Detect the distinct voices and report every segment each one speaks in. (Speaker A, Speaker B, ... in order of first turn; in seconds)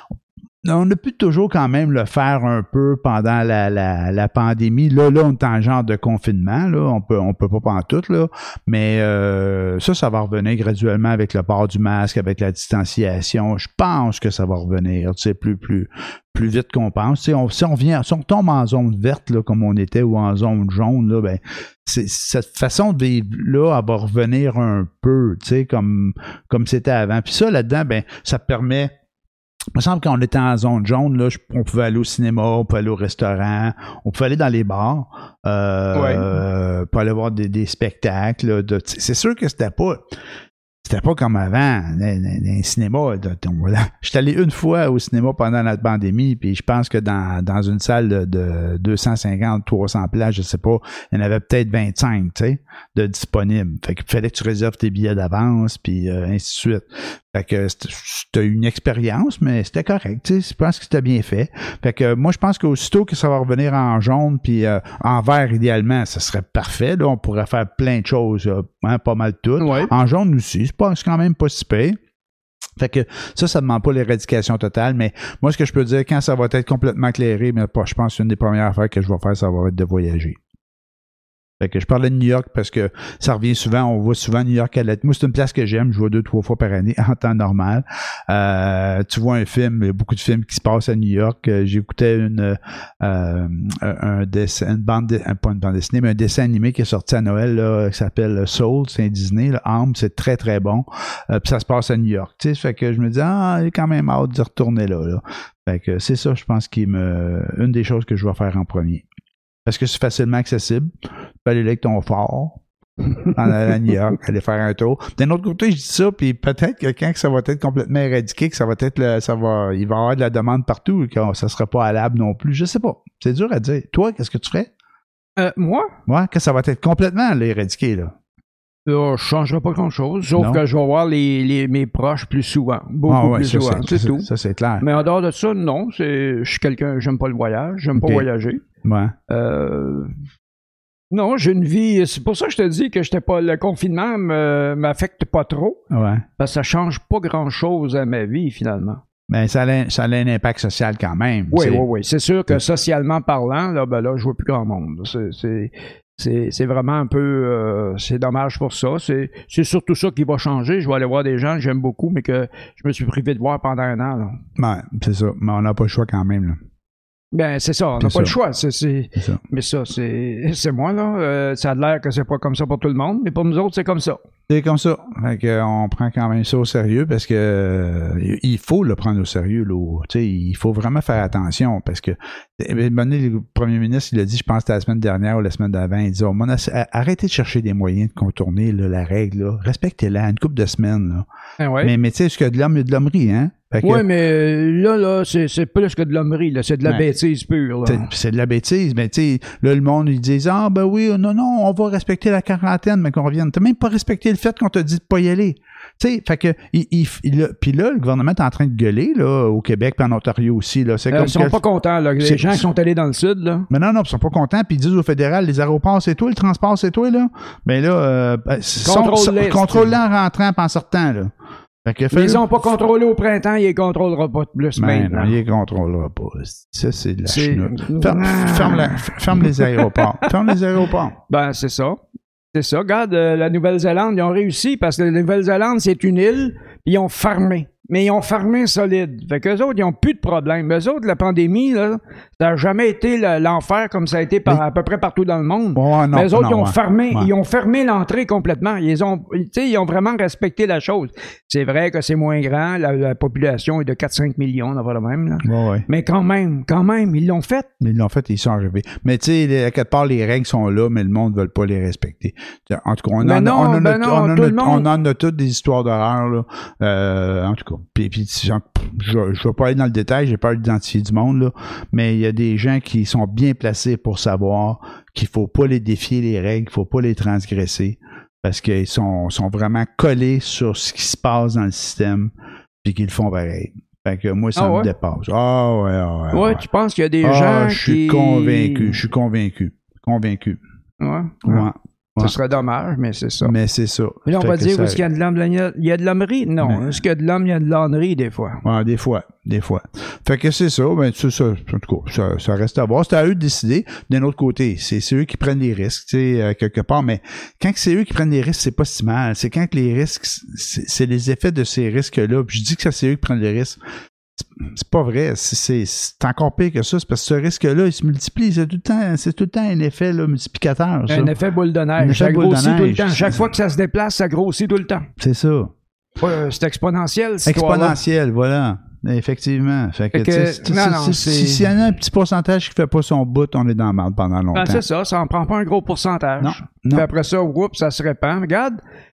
Speaker A: 0.6-28.9, 29.8-40.0, 40.9-72.0, 72.8-80.4, 81.6-109.0, 109.7-110.9, 111.4-112.6, 113.2-124.7, 126.1-128.1, 130.4-130.6, 133.1-134.9, 138.0-138.3, 138.8-139.1, 145.9-146.3, 149.3-151.8, 164.6-166.6, 168.0-168.3, 169.2-169.4, 174.5-191.3, 191.8-194.1, 197.9-211.6, 212.2-212.6, 213.7-221.3, 221.8-222.7, 224.8-231.2, 245.7-247.3, 255.4-255.9, 257.8-282.3, 282.8-286.6, 287.2-290.6, 291.4-292.4, 293.4-295.0, 296.6-297.0, 298.6-313.8, 314.4-321.3, 322.0-323.5, 325.2-325.7, 327.4-334.8, 336.4-337.1
Speaker B: 35.9-36.2, 69.6-69.9, 125.4-125.9, 128.9-134.3, 134.8-138.6, 139.3-140.2, 141.1-145.8, 146.4-149.0, 151.5-164.4, 167.3-174.2, 191.6-191.9, 193.8-198.1, 211.1-213.7, 218.8-219.9, 222.1-225.4, 227.3-230.6, 231.3-232.0, 232.5-257.7, 263.2-264.9, 284.6-284.9, 286.3-289.0, 291.0-291.7, 292.2-293.5, 294.3-298.6, 321.1-325.1, 326.2-328.0, 330.1-331.7, 334.5-338.8